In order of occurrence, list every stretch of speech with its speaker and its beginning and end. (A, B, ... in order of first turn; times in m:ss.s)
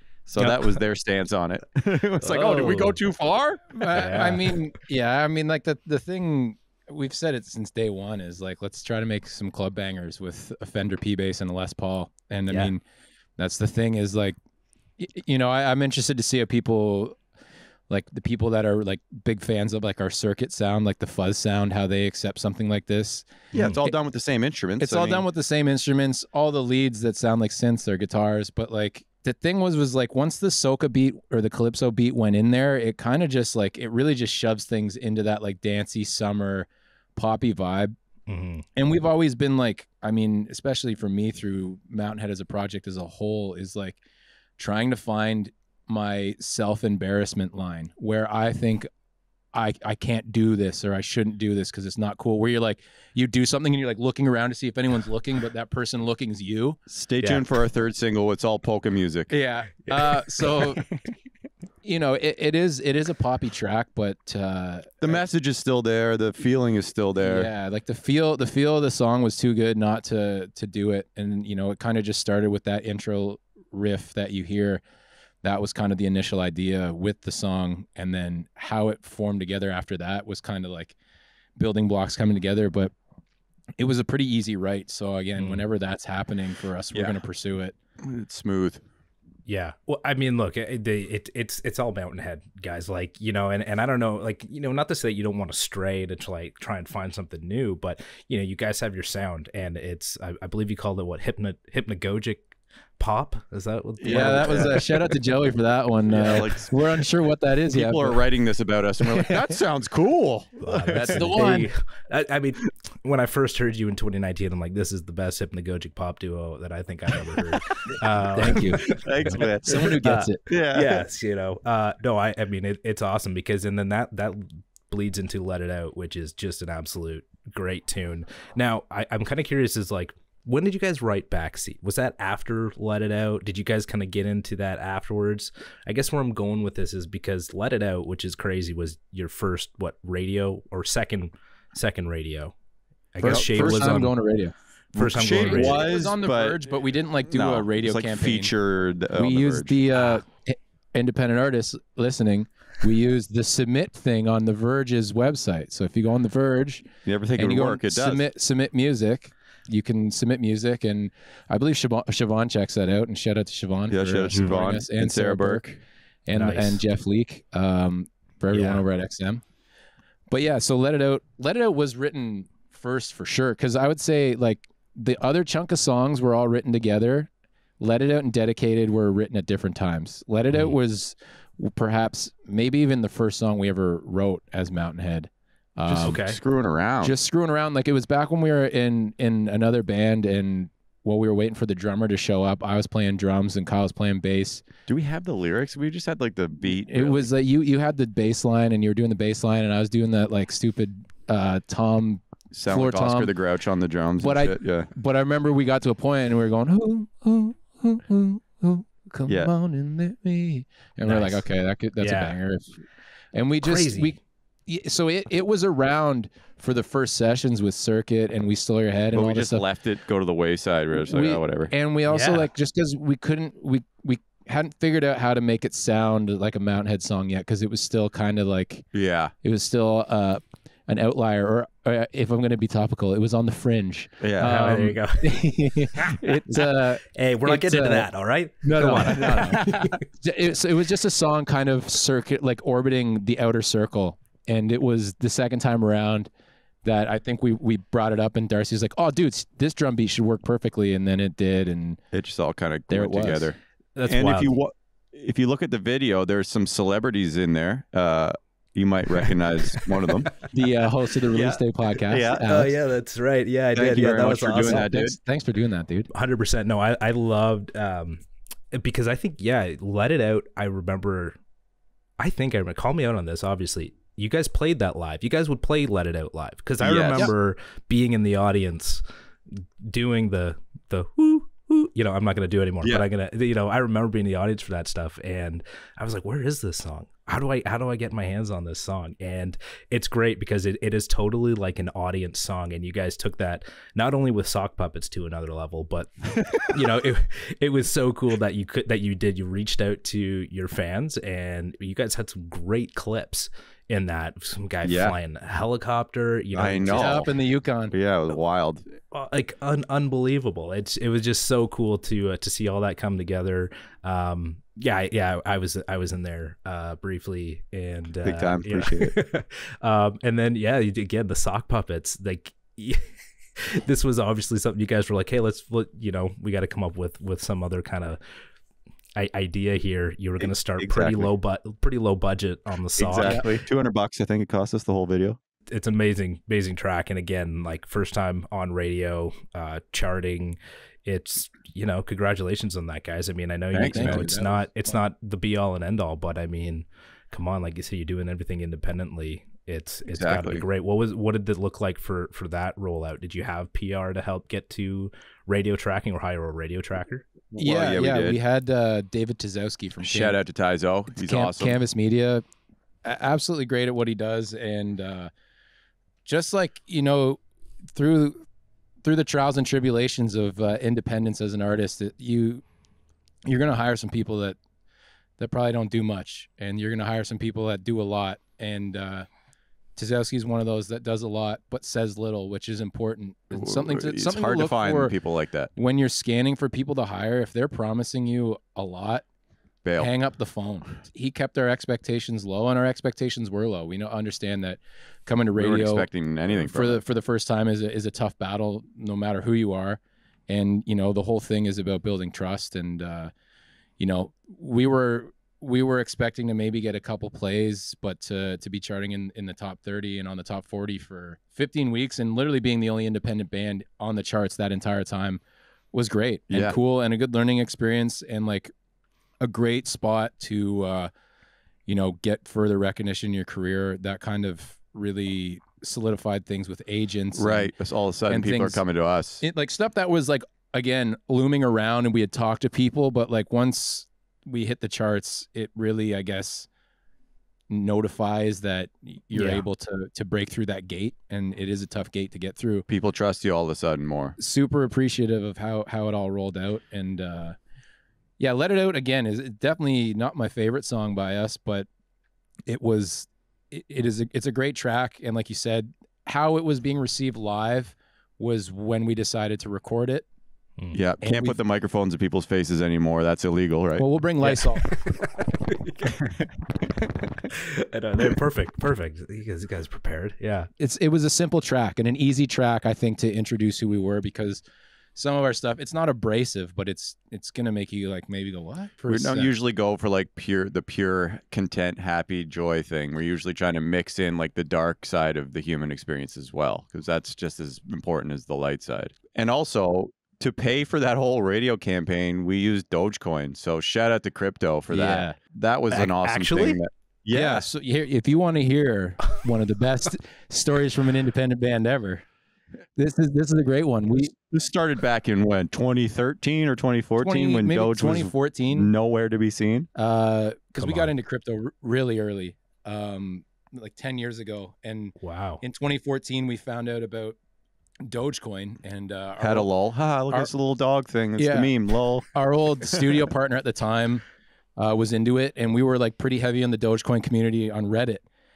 0:00.2-0:04.4 A
0:00.4-0:00.8 B
0:02.2-0:03.0 B
0:03.8-0:12.8 C
0:03.9-0:04.5 B
0:12.5-0:12.7 B
0:13.4-0:14.4 C
0:15.0-0:17.2 C
0:17.9-0:23.9 C
0:23.5-0:25.2 A
0:23.5-0:23.8 B
0:24.8-0:37.9 C
0:38.3-0:38.7 B
0:38.8-0:44.0 C
0:44.6-0:48.9 C
0:49.5-0:56.8 C
0:56.9-0:59.3 A
0:57.2-0:57.6 B
0:59.3-1:00.8 C
0:59.9-1:00.9 B
1:01.8-1:05.2 C
1:05.0-1:07.5 A
1:07.2-1:14.8 C
1:15.4-1:21.0 C
1:21.6-1:22.9 C
1:23.8-1:27.7 C
1:25.4-1:25.6 B
1:26.9-1:27.2 A
1:28.0-1:28.8 A
1:29.5-1:44.8 B
1:44.0-1:45.0 A
1:44.1-1:48.2 C
1:46.1-1:46.9 A
1:47.7-1:51.4 A
1:49.0-1:49.6 C
1:50.6-2:22.5 B
1:50.9-1:51.7 C
1:58.4-2:00.4 C
1:58.4-2:01.0 A
2:23.1-2:24.1 B
2:23.2-2:24.5 C
2:23.2-2:23.8 A
2:24.9-2:25.8 B
2:24.9-2:26.6 A
2:25.4-2:28.5 C
2:27.3-2:29.8 A
2:29.1-2:45.6 C
2:37.0-2:38.2 A
2:43.9-2:45.8 A
2:46.3-2:49.4 C
2:46.3-2:46.8 B
2:48.5-2:48.8 B
2:50.3-2:57.3 C
2:57.8-3:06.3 C
3:00.5-3:00.8 B
3:05.9-3:06.4 B
3:05.9-3:07.2 A
3:07.0-3:14.6 C
3:14.8-3:17.3 A
3:16.7-3:23.3 C
3:22.5-3:24.9 A
3:24.2-3:32.8 C
3:29.3-3:29.5 A
3:31.0-3:31.4 B
3:32.0-3:32.4 B
3:33.3-3:39.6 C
3:33.6-3:34.1 B
3:39.1-3:41.7 A
3:41.1-3:48.9 C
3:42.1-3:42.5 B
3:48.9-3:49.3 A
3:49.4-3:58.1 C
3:54.2-3:54.6 A
3:54.4-4:00.0 B
3:58.6-4:06.3 C
3:59.3-3:59.9 A
4:06.8-4:12.0 C
4:12.1-4:13.6 A
4:12.9-4:13.5 C
4:14.0-4:14.5 B
4:14.1-4:20.4 A
4:19.6-4:20.1 B
4:20.4-4:22.7 C
4:21.3-4:21.6 B
4:22.1-4:22.6 A
4:22.3-4:24.9 B
4:23.7-4:25.2 A
4:24.6-4:26.1 C
4:26.1-4:31.4 B
4:32.2-5:07.2 B
4:36.8-4:37.3 A
5:04.8-5:05.2 A
5:06.5-5:07.3 A
5:06.9-5:07.9 C
5:07.9-5:08.8 A
5:09.1-5:23.0 B
5:18.2-5:19.2 A
5:23.6-5:28.2 B
5:29.2-5:33.4 B
5:30.8-5:31.3 A
5:33.0-5:35.4 A
5:35.7-5:57.3 B
5:43.7-5:44.3 A
5:43.8-5:44.6 C
5:50.1-5:50.6 A
5:57.5-5:58.4 A
5:57.6-6:00.4 C
6:00.0-6:01.8 A
6:01.1-6:02.4 C
6:03.0-6:05.3 C
6:06.2-6:07.4 C
6:07.9-6:08.4 C
6:09.0-6:12.6 C
6:13.4-6:14.6 C
6:15.4-6:19.3 C
6:20.0-6:25.1 C
6:23.5-6:25.7 A
6:25.8-6:29.2 C
6:29.8-6:30.1 A
6:30.0-6:43.3 C
6:35.6-6:37.0 A
6:44.0-6:55.4 C
6:55.9-6:58.7 C
6:56.5-6:56.8 A
6:59.4-7:01.1 C
7:01.9-7:07.7 C
7:07.3-7:09.4 A
7:08.3-7:08.8 C
7:09.4-7:16.7 C
7:17.7-7:22.8 C
7:19.3-7:19.7 B
7:22.9-7:24.4 A
7:24.4-7:27.6 C
7:28.4-7:31.9 C
7:32.7-7:40.2 C
7:40.9-7:44.0 A
7:41.2-7:41.6 C
7:44.0-7:44.9 C
7:44.4-7:46.2 B
7:46.0-7:46.5 A
7:47.5-7:50.7 B
7:50.8-7:54.6 C
7:55.2-7:59.5 C
7:59.1-8:17.6 A
8:14.9-8:15.4 C
8:15.9-8:16.8 B
8:17.3-8:22.2 C
8:23.0-8:24.3 C
8:24.5-8:29.9 A
8:27.2-8:28.9 C
8:29.9-8:37.4 C
8:30.8-8:31.1 B
8:35.2-8:35.6 B
8:38.0-8:39.7 C
8:39.4-8:42.2 A
8:41.4-8:41.8 C
8:42.3-8:44.2 C
8:44.8-8:48.2 C